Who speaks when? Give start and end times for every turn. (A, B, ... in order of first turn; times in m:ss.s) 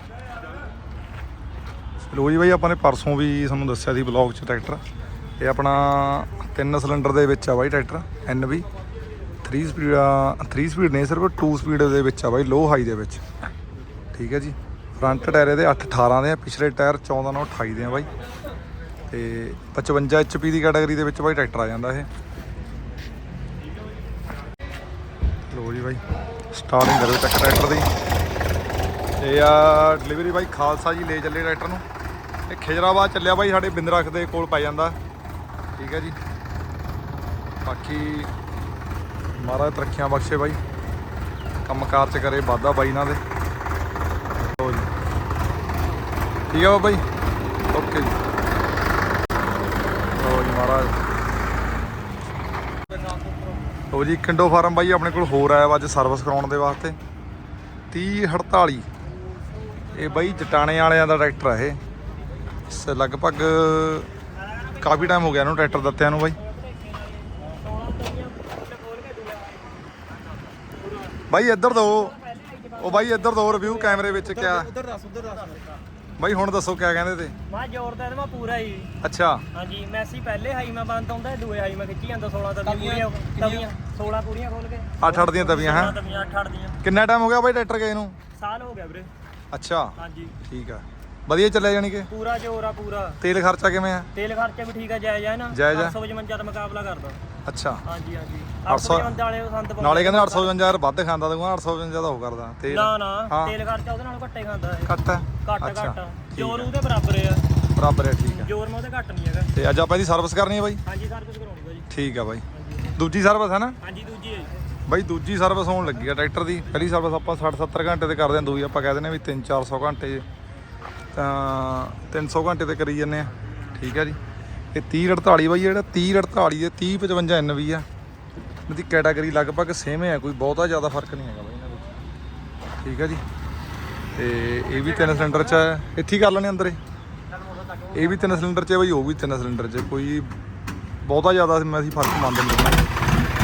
0:02.1-0:04.8 A
0:05.4-0:08.7 A
0:09.4-0:13.2 A
0:14.1-0:18.1 A
0:19.1-0:22.1 A
0:25.5-0:27.9 A
0:29.2-0:31.8 A
0:32.5-0:35.0 A
0:35.8-0:36.2 A
0:37.6-0:38.3 A
0:39.4-0:40.6 A
0:41.6-0:43.2 A
0:44.4-0:44.9 A
0:46.5-0:47.0 A
0:47.7-0:48.2 A
0:50.2-0:51.0 A
0:53.9-0:57.0 A
0:57.9-0:58.9 A
0:59.9-1:01.8 A
1:02.7-1:04.1 A
1:04.4-1:10.0 B
1:04.8-1:06.4 A
1:10.6-1:15.7 B
1:11.3-1:12.2 A
1:12.8-1:14.8 A
1:16.2-1:17.4 A
1:17.5-1:18.9 B
1:19.0-1:19.4 A
1:19.5-1:26.8 B
1:25.0-1:26.0 A
1:26.8-1:28.2 A
1:28.3-1:29.1 B
1:29.5-1:32.1 A
1:30.0-1:30.4 B
1:32.1-1:33.2 B
1:33.2-1:34.1 A
1:34.2-1:37.2 B
1:35.5-1:36.0 A
1:37.5-1:37.8 A
1:37.9-1:40.6 B
1:38.7-1:39.2 A
1:39.8-1:43.6 A
1:42.7-1:47.4 B
1:44.8-1:46.7 A
1:47.8-1:48.5 A
1:48.2-1:49.5 B
1:49.5-1:50.8 A
1:50.9-1:51.9 B
1:51.9-1:52.4 A
1:52.5-1:52.9 B
1:53.0-1:53.8 A
1:53.8-1:54.5 B
1:54.9-2:00.2 A
2:01.2-2:04.2 A
2:04.7-2:07.9 A
2:08.7-2:12.0 A
2:12.8-2:13.2 A
2:14.2-2:16.8 A
2:14.8-2:15.7 B
2:17.9-2:20.3 A
2:21.0-2:22.9 A